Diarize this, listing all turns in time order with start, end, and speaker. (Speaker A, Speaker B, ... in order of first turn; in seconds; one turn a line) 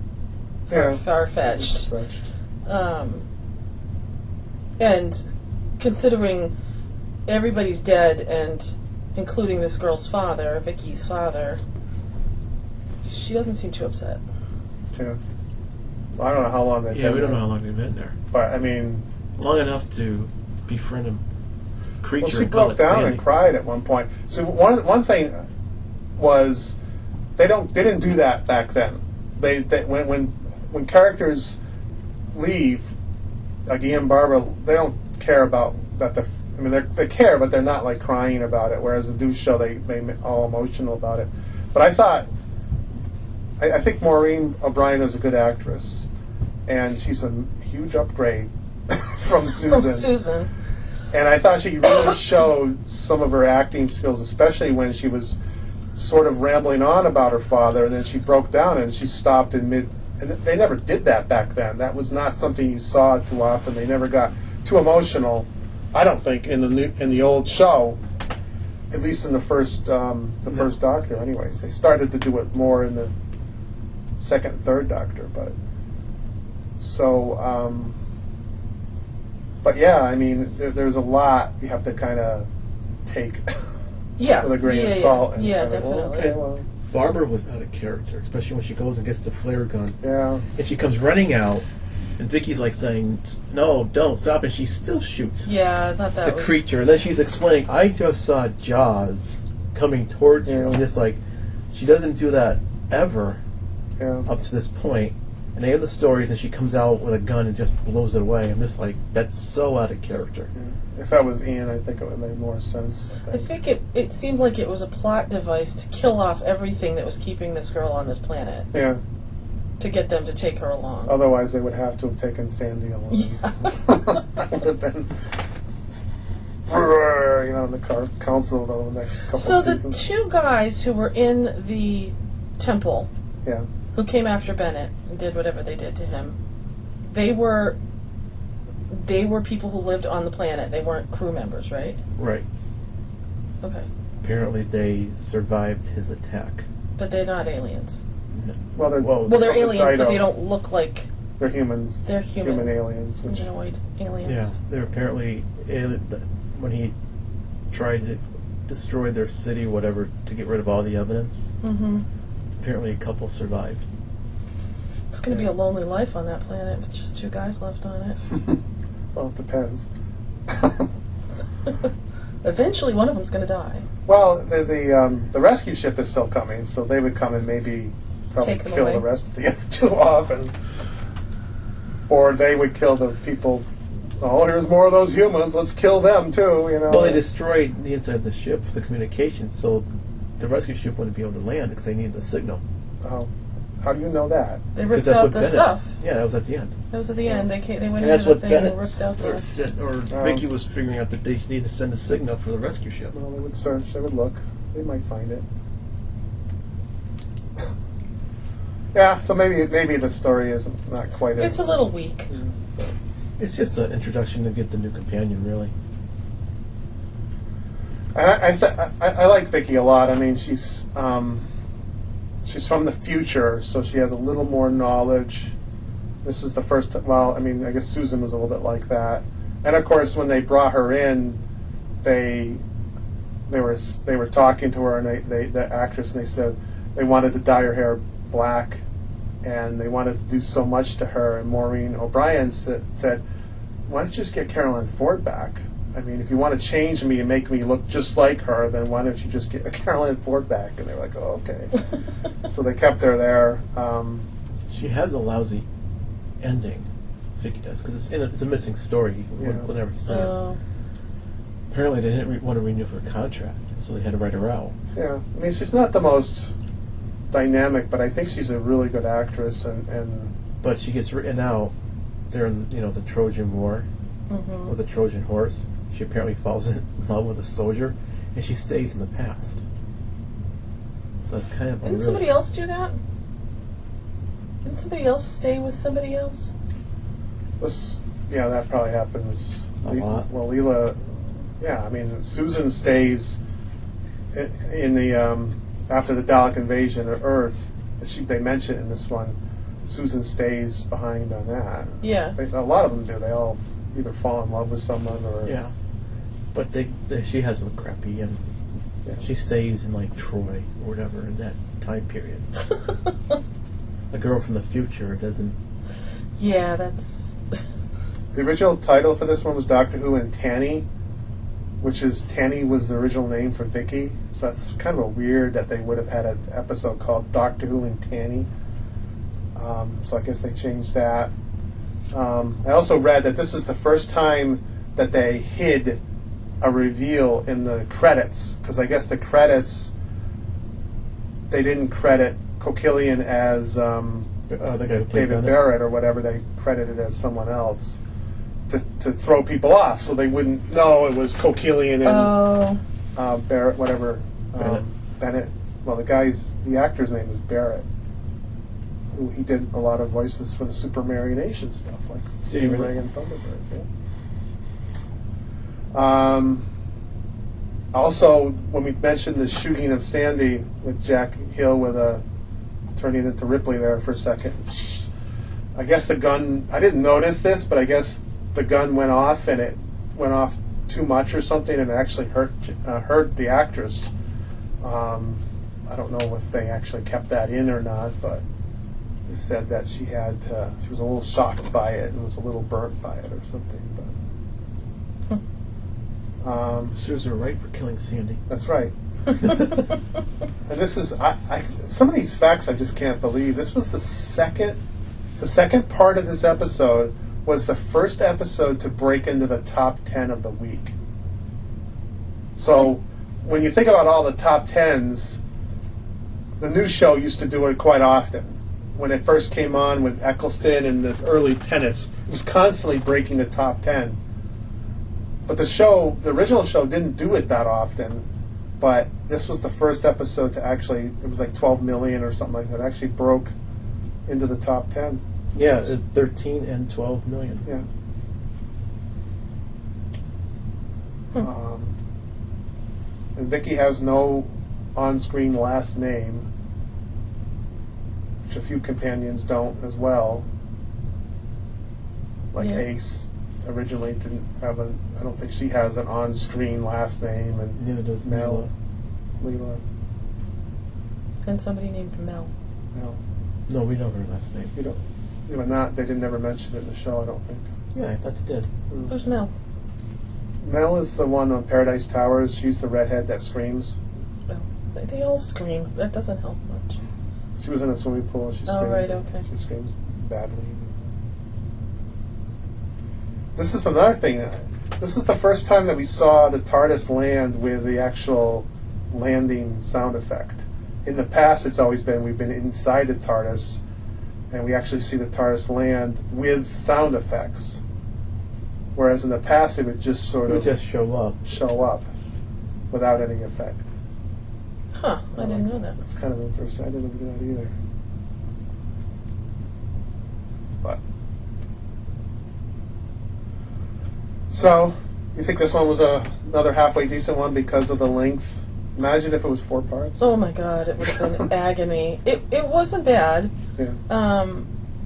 Speaker A: 0.7-1.9
Speaker B: 0.7-2.2
Speaker A: 2.7-3.3
Speaker A: 4.8-5.2
Speaker A: 5.8-6.5
Speaker A: 7.3-11.6
Speaker A: 13.0-14.2
Speaker B: 14.9-15.2
Speaker B: 16.2-17.4
Speaker C: 16.9-18.2
Speaker B: 18.3-19.1
Speaker C: 19.4-21.2
Speaker C: 22.0-23.2
Speaker B: 22.2-25.4
Speaker B: 26.2-26.8
Speaker B: 27.4-31.6
Speaker B: 32.3-33.0
Speaker B: 33.7-42.3
Speaker B: 43.6-46.1
Speaker B: 46.7-50.1
Speaker A: 49.6-50.5
Speaker B: 51.1-55.4
Speaker B: 55.9-68.0
Speaker B: 68.9-73.1
Speaker B: 74.2-75.5
Speaker B: 76.8-78.0
Speaker B: 79.6-82.5
Speaker B: 83.0-83.7
Speaker A: 84.2-86.4
Speaker B: 84.4-86.7
Speaker C: 86.9-90.0
Speaker B: 90.0-90.5
Speaker C: 90.5-91.7
Speaker C: 92.2-95.5
Speaker A: 95.5-96.7
Speaker C: 96.2-101.2
Speaker B: 100.5-100.8
Speaker C: 101.7-103.4
Speaker B: 104.0-104.3
Speaker C: 104.3-110.5
Speaker B: 110.5-113.5
Speaker A: 113.3-118.7
Speaker B: 118.7-119.0
Speaker A: 119.8-121.2
Speaker B: 121.1-125.3
Speaker A: 123.1-124.2
Speaker B: 126.7-130.0
Speaker A: 129.3-133.1
Speaker A: 133.9-136.4
Speaker A: 137.1-137.8
Speaker A: 138.9-142.0
Speaker C: 142.2-142.4
Speaker A: 143.6-143.9
Speaker C: 144.2-146.7
Speaker A: 147.0-148.0
Speaker C: 148.3-149.5
Speaker B: 148.8-150.3
Speaker A: 149.2-151.1
Speaker B: 151.4-153.5
Speaker A: 152.1-154.6
Speaker C: 154.2-156.9
Speaker C: 157.7-161.5
Speaker A: 161.6-162.1
Speaker C: 162.6-163.8
Speaker A: 165.1-168.2
Speaker B: 169.1-169.9
Speaker B: 170.5-170.9
Speaker A: 172.4-173.9
Speaker B: 174.1-180.6
Speaker A: 178.4-179.0
Speaker B: 182.1-183.7
Speaker B: 184.2-187.2
Speaker C: 186.9-189.8
Speaker C: 190.4-192.6
Speaker B: 193.0-193.3
Speaker B: 193.8-194.7
Speaker A: 194.8-195.9
Speaker C: 194.9-196.8
Speaker A: 196.9-199.5
Speaker C: 198.0-203.1
Speaker B: 200.1-200.4
Speaker B: 203.1-205.5
Speaker B: 208.9-211.8
Speaker A: 211.4-212.3
Speaker C: 213.4-215.7
Speaker B: 218.1-221.5
Speaker B: 222.4-225.5
Speaker B: 226.2-231.4
Speaker B: 232.0-232.6
Speaker B: 233.5-238.8
Speaker B: 239.4-243.2
Speaker B: 243.9-251.8
Speaker B: 252.4-254.3
Speaker C: 254.7-255.7
Speaker C: 256.4-256.9
Speaker C: 257.4-260.4
Speaker B: 259.4-259.7
Speaker A: 260.1-260.6
Speaker C: 261.7-264.8
Speaker B: 264.9-266.6
Speaker B: 267.3-270.3
Speaker C: 270.6-271.7
Speaker C: 272.3-273.9
Speaker A: 274.3-274.7
Speaker C: 274.7-279.6
Speaker C: 281.2-282.3
Speaker A: 281.8-283.0
Speaker A: 284.6-286.5
Speaker B: 287.6-291.0
Speaker C: 289.8-290.3
Speaker B: 291.6-293.4
Speaker B: 294.3-305.6
Speaker A: 302.0-302.4
Speaker C: 305.4-305.7
Speaker C: 306.5-308.4
Speaker C: 309.2-312.5
Speaker C: 314.1-315.6
Speaker A: 316.4-317.6
Speaker B: 318.3-320.9
Speaker B: 321.8-328.5
Speaker B: 329.6-331.3
Speaker B: 332.1-336.0
Speaker B: 336.6-339.9
Speaker B: 341.5-344.3
Speaker C: 344.5-345.6
Speaker B: 345.1-348.0
Speaker B: 348.7-352.4
Speaker A: 352.0-352.8
Speaker B: 353.2-357.9
Speaker B: 359.1-363.9
Speaker C: 362.5-362.9
Speaker B: 365.9-366.7
Speaker B: 367.9-372.2
Speaker B: 372.9-375.1
Speaker B: 375.8-384.1
Speaker B: 384.8-388.4
Speaker B: 389.3-394.1
Speaker B: 396.4-397.0
Speaker C: 396.9-398.4
Speaker B: 398.5-398.9
Speaker C: 399.4-399.8
Speaker B: 400.7-404.8
Speaker B: 405.4-410.9
Speaker B: 412.6-415.4
Speaker B: 416.6-424.2
Speaker B: 425.5-428.3
Speaker B: 428.8-433.5
Speaker B: 434.3-435.2
Speaker C: 435.5-437.6
Speaker B: 441.4-442.0
Speaker B: 443.4-446.5
Speaker B: 448.5-450.5
Speaker B: 452.5-458.7
Speaker A: 452.6-452.9
Speaker C: 457.8-458.7
Speaker B: 459.4-459.8
Speaker A: 461.4-462.5
Speaker B: 462.9-463.2
Speaker C: 463.7-464.7
Speaker B: 464.8-467.7
Speaker C: 467.9-468.7
Speaker B: 468.9-469.2
Speaker A: 469.1-469.5
Speaker B: 470.6-474.0
Speaker A: 474.5-477.0
Speaker B: 477.6-481.1
Speaker A: 478.7-479.4
Speaker B: 483.6-493.8
Speaker B: 494.5-497.8
Speaker B: 498.9-500.8
Speaker C: 500.5-501.4
Speaker B: 501.4-502.1
Speaker B: 502.9-503.9
Speaker A: 504.9-506.0
Speaker B: 505.3-507.8
Speaker B: 514.5-520.2
Speaker A: 520.2-523.5
Speaker A: 524.1-524.7